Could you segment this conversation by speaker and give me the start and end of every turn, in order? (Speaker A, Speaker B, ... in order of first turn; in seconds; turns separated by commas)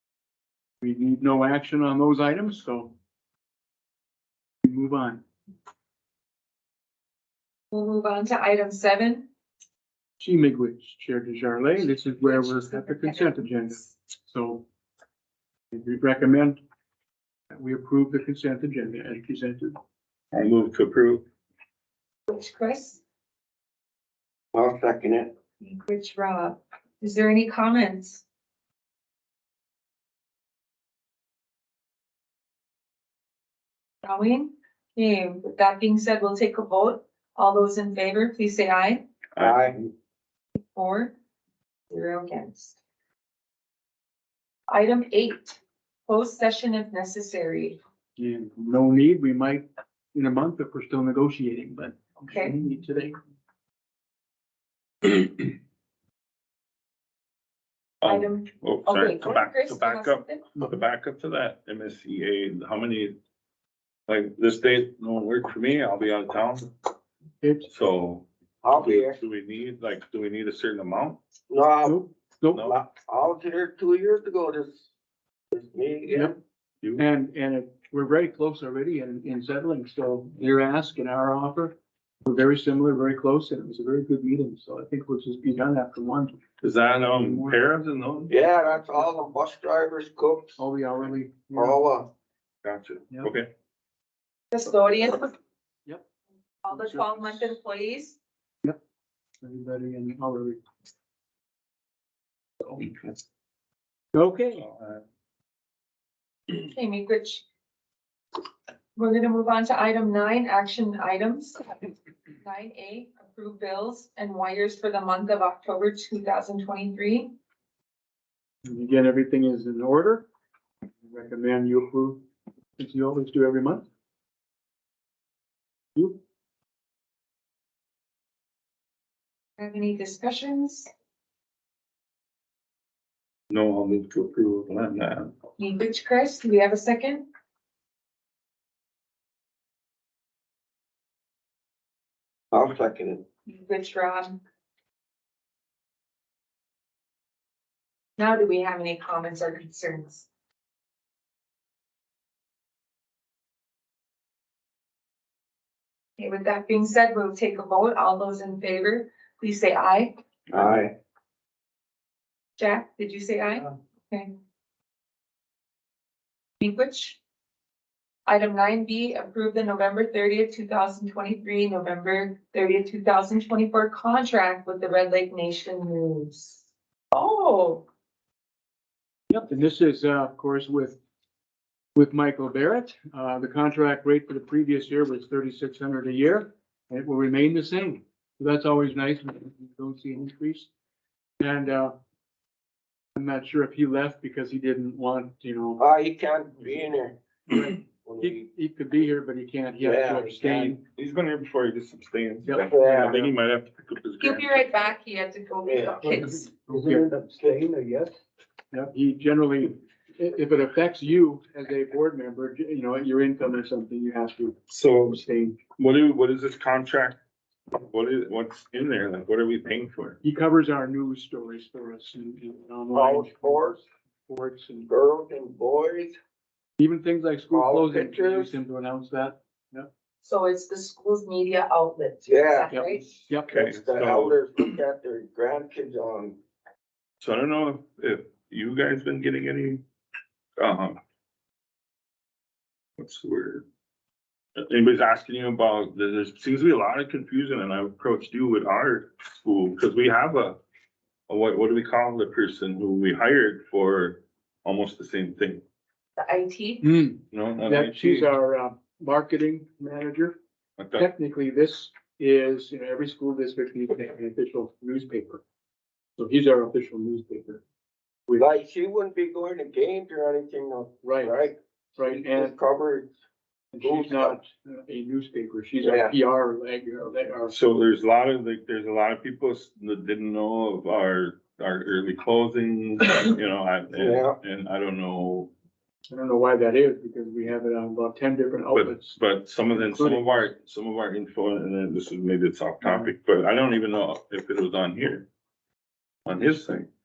Speaker A: 0.8-2.9, Speaker A: 4.6-5.2, Speaker B: 7.7-9.2, Speaker A: 10.2-14.6, Speaker B: 11.8-13.9, Speaker A: 15.7-16.6, Speaker A: 17.5-19.7, Speaker C: 20.3-21.2, Speaker B: 22.3-23.0, Speaker D: 24.5-25.3, Speaker B: 25.6-28.2, Speaker B: 34.0-39.0, Speaker C: 39.4-39.9, Speaker D: 39.4-39.8, Speaker B: 40.6-41.1, Speaker B: 41.9-42.8, Speaker B: 44.7-47.8, Speaker A: 48.2-53.2, Speaker B: 52.2-52.5, Speaker B: 58.0-60.5, Speaker C: 58.0-63.1, Speaker C: 64.1-66.7, Speaker A: 67.4-67.7, Speaker C: 67.7-71.2, Speaker D: 68.6-69.2, Speaker D: 71.5-72.0, Speaker A: 71.8-72.8, Speaker C: 72.5-72.8, Speaker D: 72.6-74.9, Speaker D: 75.5-76.4, Speaker A: 76.1-76.4, Speaker A: 77.0-86.4, Speaker C: 86.6-88.3, Speaker A: 87.0-87.6, Speaker D: 88.3-90.6, Speaker A: 90.6-91.8, Speaker D: 91.5-92.1, Speaker C: 92.6-93.5, Speaker B: 94.5-95.3, Speaker B: 96.6-98.2, Speaker A: 96.7-97.5, Speaker A: 99.4-100.6, Speaker A: 104.1-104.7, Speaker C: 104.6-105.0, Speaker B: 106.5-107.4, Speaker B: 109.0-111.9, Speaker B: 112.4-117.3, Speaker A: 118.7-120.3, Speaker A: 121.0-122.2, Speaker A: 122.8-123.8, Speaker B: 129.6-130.9, Speaker C: 133.5-135.3, Speaker B: 135.6-137.3, Speaker D: 142.5-143.2, Speaker B: 143.4-144.4, Speaker B: 148.2-150.3, Speaker B: 156.2-160.2, Speaker C: 160.5-160.8, Speaker D: 160.5-160.9, Speaker B: 162.6-164.3, Speaker B: 166.6-167.2, Speaker B: 168.2-176.6, Speaker B: 177.1-177.8, Speaker A: 179.3-181.0, Speaker A: 181.9-190.7, Speaker A: 191.4-191.9, Speaker A: 193.1-195.8, Speaker D: 195.8-197.2, Speaker A: 197.5-200.8, Speaker D: 198.0-198.4, Speaker D: 199.8-200.8, Speaker C: 200.6-204.5, Speaker A: 202.4-202.7, Speaker D: 202.7-203.2, Speaker B: 204.2-206.5, Speaker D: 205.6-206.1, Speaker A: 206.0-207.2, Speaker D: 206.7-208.1, Speaker A: 208.7-214.6, Speaker C: 214.7-217.2, Speaker A: 215.1-215.6, Speaker C: 217.7-220.2, Speaker A: 220.2-224.9, Speaker D: 222.9-223.8, Speaker D: 224.9-226.2, Speaker A: 226.8-229.9, Speaker D: 227.5-228.5, Speaker B: 230.2-233.1, Speaker D: 232.2-236.4, Speaker A: 232.7-233.6, Speaker C: 233.4-234.4, Speaker C: 237.2-239.8, Speaker C: 240.6-241.0, Speaker C: 243.0-243.6, Speaker C: 244.6-250.6, Speaker C: 251.3-255.6, Speaker B: 256.2-256.9, Speaker A: 256.8-260.4, Speaker C: 257.3-258.3, Speaker C: 260.8-261.1, Speaker A: 260.9-265.4, Speaker A: 266.2-267.6, Speaker D: 268.4-273.1, Speaker A: 271.0-271.4, Speaker A: 272.0-272.6, Speaker A: 273.7-277.6, Speaker D: 273.8-274.4, Speaker D: 275.8-276.2, Speaker C: 277.5-285.5, Speaker D: 283.9-284.4, Speaker A: 286.1-289.2, Speaker C: 288.7-295.3, Speaker A: 289.7-290.3, Speaker C: 296.2-296.9